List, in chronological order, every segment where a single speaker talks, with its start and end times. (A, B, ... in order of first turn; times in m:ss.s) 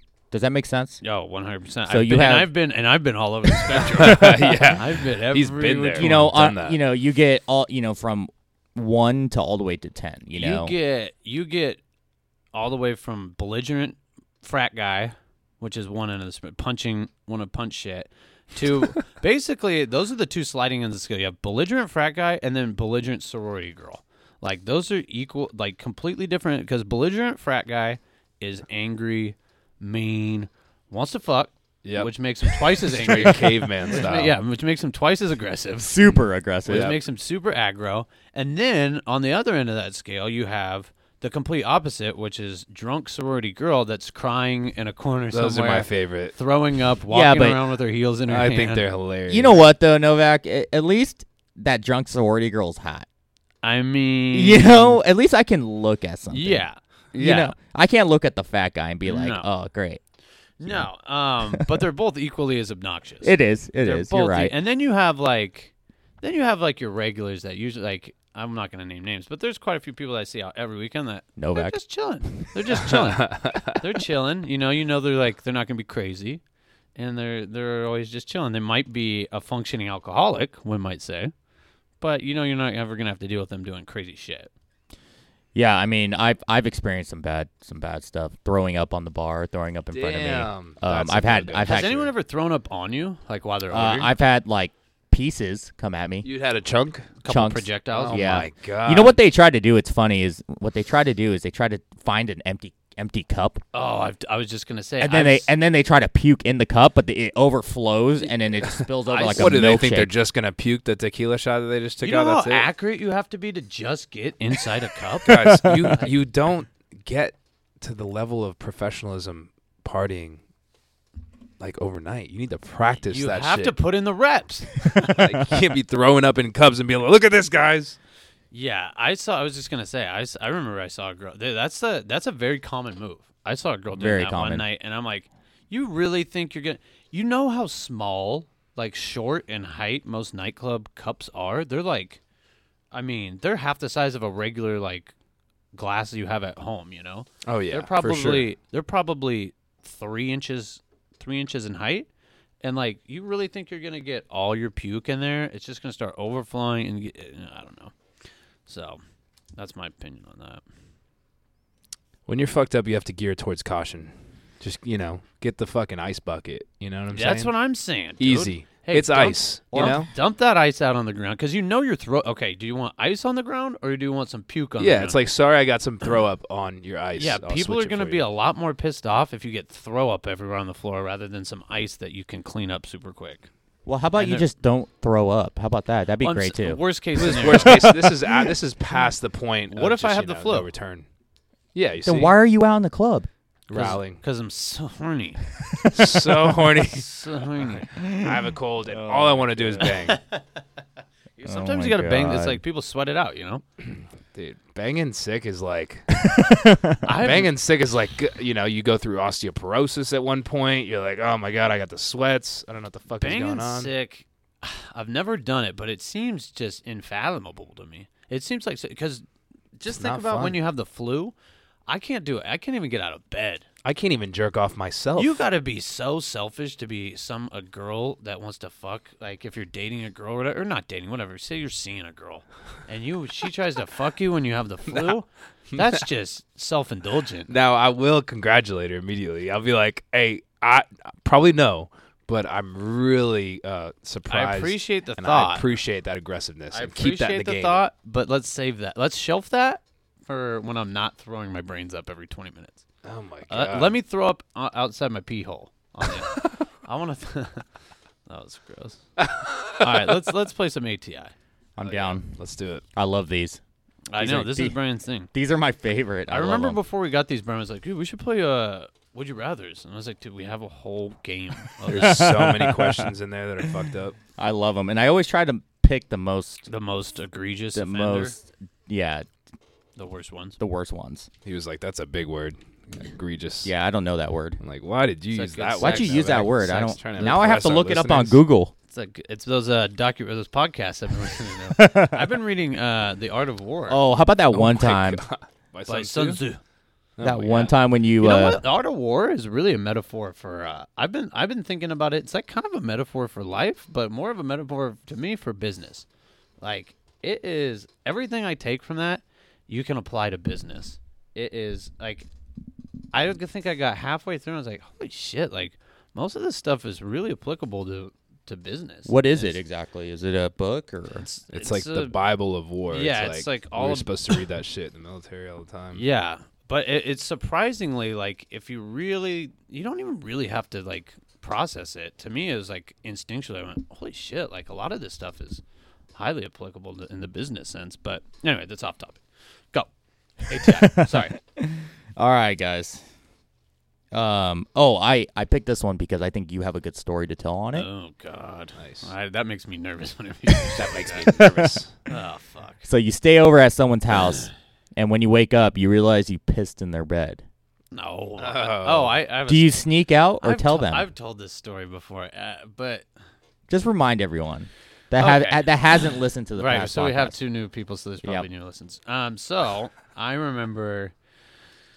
0:00.3-0:01.0 A
0:01.0-0:06.1 B
0:01.9-0:02.5 A
0:03.9-0:06.8 C
0:04.0-0:04.5 A
0:06.0-0:10.7 A
0:10.3-0:11.8 B
0:12.5-0:36.0 B
0:31.8-0:34.4 C
0:35.8-0:36.9 A
0:36.7-0:48.9 B
0:36.7-0:37.0 C
0:45.3-0:46.4 C
0:47.1-0:47.6 A
0:48.3-0:49.6 C
0:49.3-0:53.1 A
0:53.6-0:55.0 B
0:54.3-1:00.0 A
0:56.3-0:57.6 B
0:59.0-0:59.5 B
1:00.6-1:16.4 B
1:03.2-1:04.6 A
1:11.4-1:11.8 A
1:12.9-1:13.8 C
1:17.0-1:21.3 B
1:22.0-1:24.5 B
1:25.6-1:32.1 A
1:29.9-1:31.9 C
1:31.6-1:34.1 B
1:33.7-1:36.3 A
1:36.2-1:37.1 C
1:37.2-1:38.3 B
1:37.3-1:43.6 A
1:37.9-1:39.2 C
1:43.7-1:45.5 B
1:45.0-1:50.1 A
1:48.8-1:52.7 C
1:49.1-1:49.6 B
1:52.0-1:56.1 B
1:55.2-2:00.4 C
1:55.3-1:56.0 A
2:01.6-2:03.8 C
2:03.1-2:05.3 B
2:04.8-2:08.0 C
2:08.5-2:22.2 B
2:14.0-2:14.7 A
2:22.9-2:25.1 B
2:25.7-2:32.1 B
2:27.4-2:28.5 C
2:32.6-2:37.9 B
2:38.7-2:39.0 B
2:39.6-2:40.6 B
2:42.3-2:47.5 C
2:47.1-2:55.2 B
2:48.2-2:50.1 C
2:49.7-2:50.0 A
2:54.8-2:58.3 C
2:57.2-3:03.5 B
3:03.9-3:06.8 A
3:04.2-3:04.5 B
3:06.2-3:07.9 B
3:07.2-3:11.1 C
3:07.5-3:08.5 A
3:09.7-3:10.7 B
3:11.7-3:12.4 C
3:12.0-3:14.0 A
3:13.7-3:14.2 C
3:13.7-3:16.0 B
3:15.9-3:17.1 C
3:16.7-3:17.9 B
3:17.9-3:18.4 A
3:18.0-3:20.2 C
3:18.9-3:20.0 A
3:20.0-3:20.4 B
3:21.4-3:23.6 B
3:21.4-3:22.6 A
3:24.3-3:26.1 C
3:26.2-3:27.0 A
3:27.0-3:27.5 B
3:27.2-3:33.9 C
3:33.2-3:39.2 B
3:39.8-3:41.3 B
3:39.9-3:40.6 C
3:41.9-3:43.7 B
3:43.8-3:45.4 C
3:45.2-3:57.5 B
3:57.5-4:07.8 C
4:04.3-4:05.7 B
4:06.7-4:12.8 B
4:13.0-4:14.0 C
4:13.5-4:17.7 B
4:18.3-4:19.0 B
4:19.3-4:19.8 C
4:19.8-4:21.3 B
4:21.8-4:22.4 A
4:21.8-4:22.8 C
4:23.0-4:23.6 A
4:24.1-4:25.3 B
4:24.2-4:24.8 A
4:25.3-4:26.8 A
4:26.3-4:32.3 B
4:31.9-4:34.2 C
4:31.9-4:33.0 A
4:34.4-4:36.7 A
4:36.7-4:38.4 B
4:37.7-4:39.3 A
4:40.0-4:40.6 B
4:40.6-4:41.3 A
4:41.4-4:43.7 C
4:43.6-4:44.6 A
4:44.6-4:48.4 C
4:45.3-4:47.0 B
4:45.8-4:48.7 A
4:48.9-4:54.0 B
4:51.7-4:52.3 A
4:53.9-4:55.2 A
4:54.5-4:56.4 C
4:55.9-4:56.6 B
4:57.2-4:57.5 C
4:57.2-4:58.6 A
4:57.4-5:06.0 B
5:06.6-5:12.3 B
5:13.1-5:19.6 B
5:19.1-5:21.3 A
5:21.2-5:22.2 B
5:21.5-5:26.0 C
5:22.9-5:24.1 B
5:26.0-5:35.6 B
5:36.2-5:39.9 B
5:40.5-5:41.4 B
5:40.8-5:43.0 A
5:44.1-5:47.9 A
5:47.7-5:51.5 B
5:48.8-5:49.1 C
5:50.8-5:51.9 C
5:51.4-5:51.7 A
5:52.1-5:52.9 B
5:52.8-5:57.4 A
5:57.9-5:59.9 B
5:58.4-5:59.2 C
5:59.5-6:01.1 A
6:00.4-6:03.1 B
6:03.7-6:07.4 A
6:05.2-6:05.7 B
6:06.6-6:11.1 B